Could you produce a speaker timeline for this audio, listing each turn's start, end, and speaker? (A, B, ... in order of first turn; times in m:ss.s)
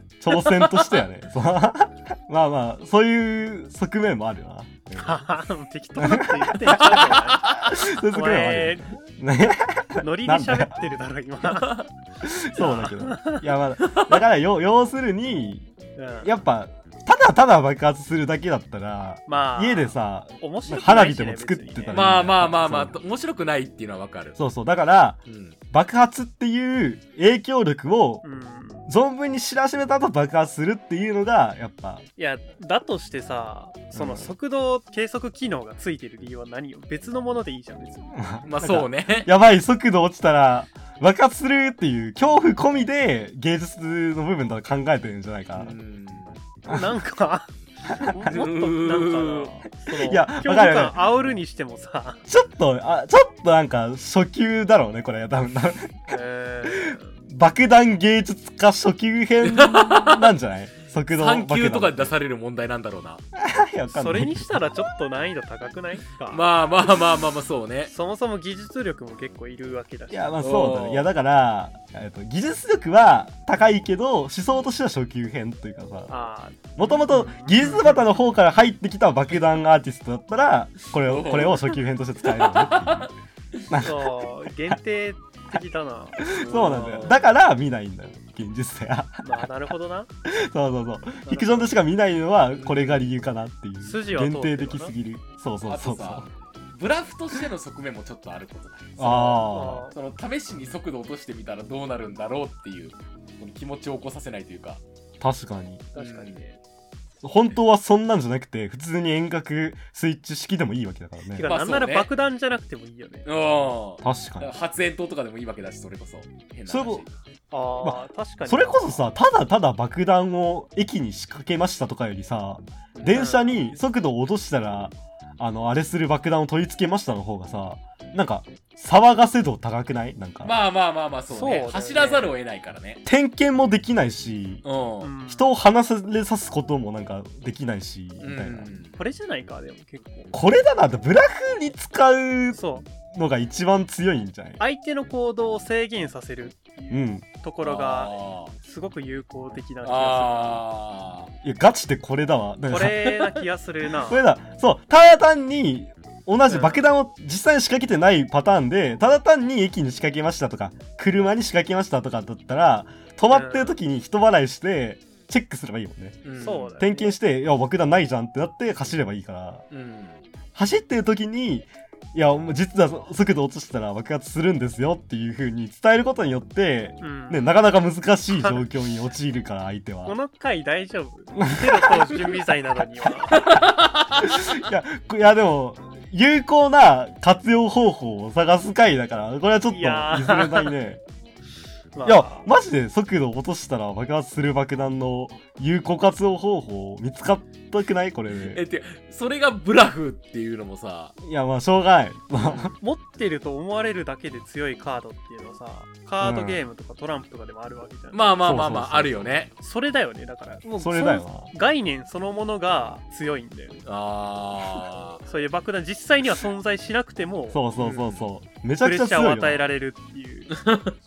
0:00.2-0:05.2 A
0:00.3-0:01.0 B
0:05.0-0:07.5 C
0:06.0-0:10.8 A
0:07.1-0:07.8 B
0:08.1-0:09.0 C
0:10.0-0:11.8 C
0:12.2-0:15.7 A
0:12.6-0:13.4 C
0:16.0-0:16.3 C
0:16.2-0:23.0 A
0:19.3-0:22.0 C
0:21.9-0:24.4 B
0:24.4-0:25.2 A
0:25.3-0:25.6 B
0:25.7-0:28.2 A
0:28.2-0:28.9 C
0:28.9-0:32.0 A
0:32.2-0:38.3 C
0:33.9-0:34.3 A
0:38.1-0:45.7 A
0:38.4-0:39.3 B
0:45.6-0:46.4 B
0:46.6-0:52.2 C
0:47.9-0:48.3 A
0:48.2-0:49.5 B
0:49.9-0:51.0 A
0:52.3-1:02.1 A
0:56.1-0:57.2 C
0:59.4-1:00.3 B
1:01.1-1:03.2 B
1:03.3-1:04.6 A
1:03.9-1:06.5 C
1:06.3-1:07.9 B
1:07.9-1:10.4 C
1:10.1-1:16.1 A
1:10.4-1:11.1 B
1:16.1-1:18.0 C
1:16.8-1:23.1 A
1:21.0-1:23.7 B
1:23.7-1:24.8 A
1:23.7-1:26.3 C
1:26.2-1:29.5 A
1:26.3-1:27.3 B
1:29.2-1:30.1 C
1:30.2-1:36.3 A
1:31.2-1:31.7 C
1:32.6-1:33.0 B
1:33.8-1:34.9 C
1:35.6-1:44.8 B
1:39.0-1:39.9 A
1:39.0-1:39.9 C
1:45.2-1:45.9 A
1:45.9-1:46.6 C
1:46.0-1:46.4 B
1:47.2-1:51.5 A
1:51.3-1:53.3 C
1:51.4-1:52.1 B
1:53.2-1:57.1 B
1:54.0-1:54.5 A
1:56.7-1:57.0 A
1:57.5-1:59.0 C
1:57.8-2:10.5 A
2:03.0-2:03.6 C
2:10.4-2:13.0 B
2:11.3-2:12.4 C
2:13.0-2:14.6 A
2:14.6-2:15.1 B
2:15.0-2:15.5 C
2:15.3-2:18.7 A
2:18.2-2:18.9 B
2:19.0-2:20.3 C
2:20.3-2:24.6 A
2:22.5-2:22.8 C
2:24.6-2:30.6 C
2:26.9-2:27.2 A
2:27.6-2:28.5 B
2:29.8-2:31.3 B
2:31.4-2:33.2 A
2:32.7-2:34.2 C
2:34.0-2:46.2 A
2:36.5-2:36.8 C
2:43.3-2:43.8 C
2:46.2-2:46.8 B
2:46.4-2:47.2 C
2:46.8-2:49.6 A
2:49.7-2:50.2 B
2:50.5-3:00.1 A
2:57.0-2:57.5 C
3:00.0-3:03.4 C
3:01.4-3:02.0 A
3:03.3-3:04.5 B
3:04.2-3:11.0 A
3:09.7-3:10.7 C
3:11.9-3:12.5 C
3:12.0-3:18.6 A
3:18.5-3:21.1 B
3:21.2-3:22.7 A
3:22.4-3:22.7 B
3:22.8-3:28.3 C
3:26.2-3:26.6 A
3:28.1-3:29.5 B
3:28.4-3:29.3 A
3:29.6-3:33.8 C
3:30.8-3:31.5 A
3:33.8-3:35.2 B
3:35.3-3:37.6 C
3:37.5-3:39.6 A
3:37.8-3:38.2 B
3:38.8-3:40.5 C
3:40.5-3:41.0 B